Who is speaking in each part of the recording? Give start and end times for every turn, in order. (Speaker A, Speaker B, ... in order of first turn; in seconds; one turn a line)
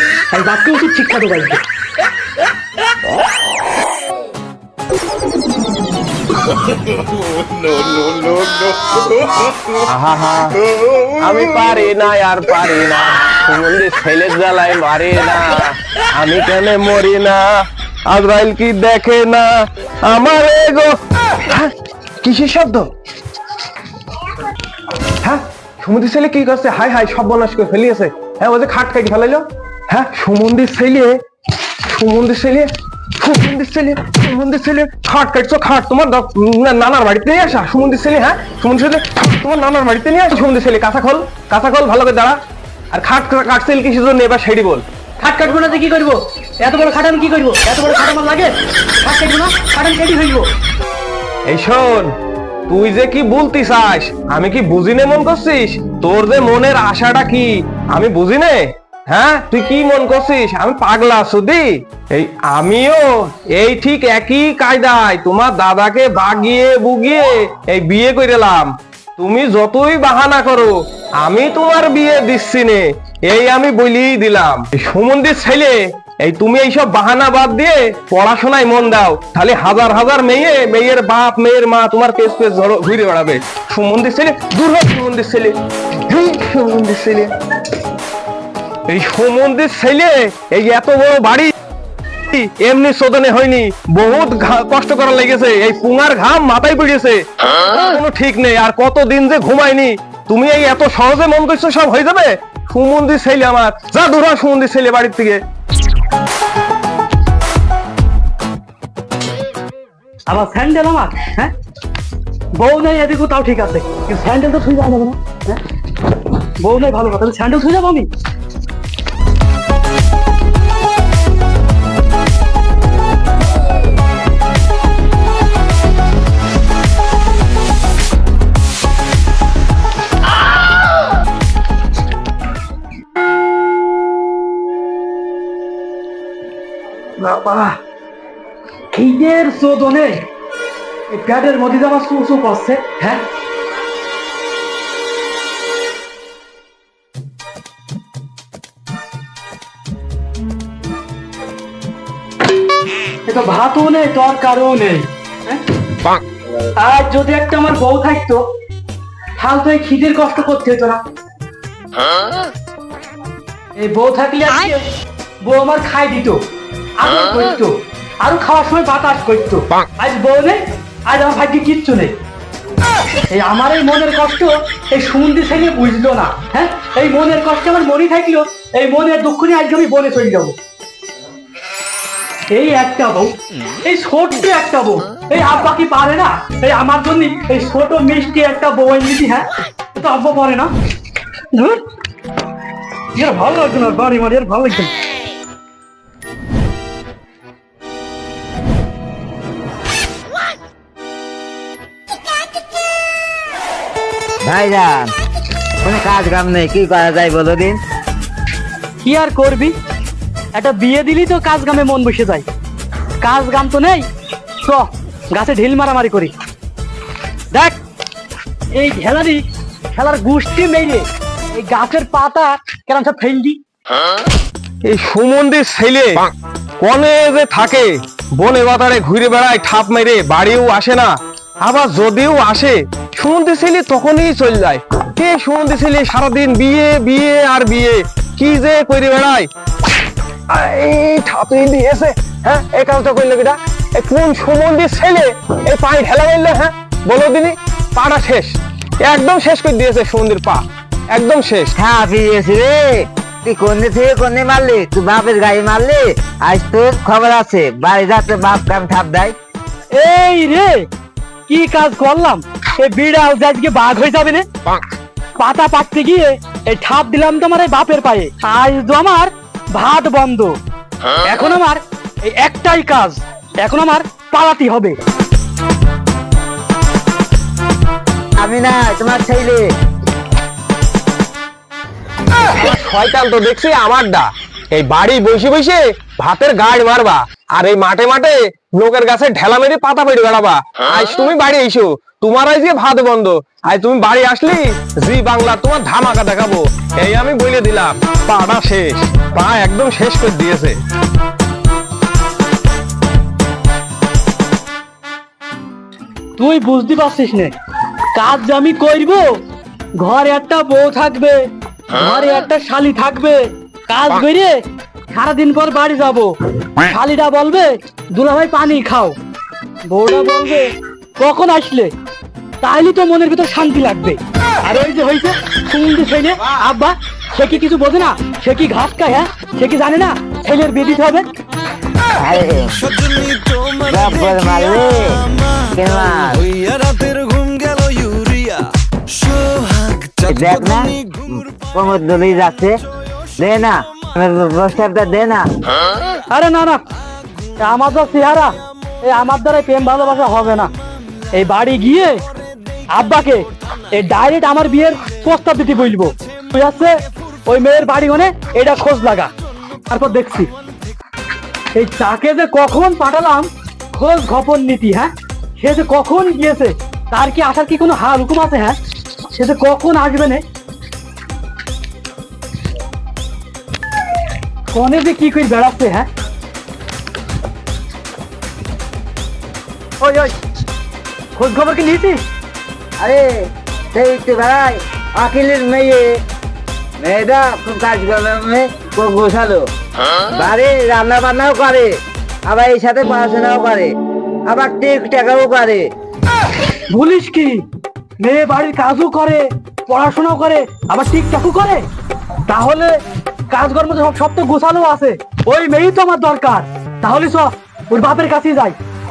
Speaker A: 0.3-1.6
Speaker B: 9.9-10.5
Speaker B: 11.2-17.5
Speaker B: 18.1-19.5
Speaker B: 20.1-21.0
Speaker B: 21.5-22.9
Speaker B: 25.2-31.2
Speaker B: 31.8-42.4
Speaker B: 42.9-44.8
Speaker A: 45.2-50.5
Speaker B: 51.5-52.1
Speaker B: 52.7-87.3
Speaker B: 88.9-91.5
Speaker B: 92.3-105.4
Speaker A: 110.3-111.5
Speaker A: 112.5-115.6
Speaker A: 116.6-118.1
Speaker A: 137.2-137.8
Speaker A: 138.9-140.2
Speaker A: 141.1-143.2
Speaker A: 153.3-155.6
Speaker A: 156.8-158.4
Speaker A: 159.4-161.0
Speaker A: 163.8-164.9
Speaker A: 165.4-166.4
Speaker A: 167.0-172.1
Speaker A: 173.3-180.6
Speaker A: 182.5-190.7
Speaker A: 191.5-191.8
Speaker A: 193.2-194.9
Speaker C: 204.4-205.1
Speaker C: 205.8-207.8
Speaker A: 209.0-209.7
Speaker A: 210.6-212.5
Speaker A: 213.2-214.1
Speaker A: 214.6-216.3
Speaker A: 217.5-217.8
Speaker A: 218.7-219.4
Speaker A: 219.9-223.6
Speaker B: 224.8-226.2
Speaker B: 226.8-231.1
Speaker B: 231.6-239.5
Speaker B: 240.5-251.7
Speaker C: 251.8-252.9
Speaker C: 253.4-259.4
Speaker A: 259.9-260.9
Speaker A: 261.5-264.5
Speaker A: 265.4-270.6
Speaker A: 271.2-275.0
Speaker C: 278.4-279.7
Speaker B: 282.5-300.8
Speaker A: 306.4-307.5
Speaker A: 308.1-309.3
Speaker A: 310.0-311.4
Speaker A: 311.9-314.6
Speaker A: 315.1-319.2
Speaker A: 319.9-321.9
Speaker A: 322.6-331.3
Speaker C: 332.2-332.9
Speaker C: 333.8-336.5
Speaker C: 340.2-342.8
Speaker C: 343.4-345.5
Speaker A: 346.3-346.8
Speaker A: 347.6-350.7
Speaker A: 351.3-352.2
Speaker A: 352.9-359.3
Speaker A: 359.9-360.5
Speaker A: 361.8-368.8
Speaker A: 369.3-370.4
Speaker A: 374.7-376.1
Speaker A: 380.0-380.3
Speaker A: 381.4-382.2
Speaker C: 383.0-383.2
Speaker C: 383.9-386.1
Speaker C: 387.0-389.7
Speaker C: 390.4-391.9
Speaker C: 392.5-393.9
Speaker C: 394.5-395.8
Speaker A: 396.9-397.6
Speaker A: 398.2-401.8
Speaker A: 402.5-403.0
Speaker A: 403.5-408.8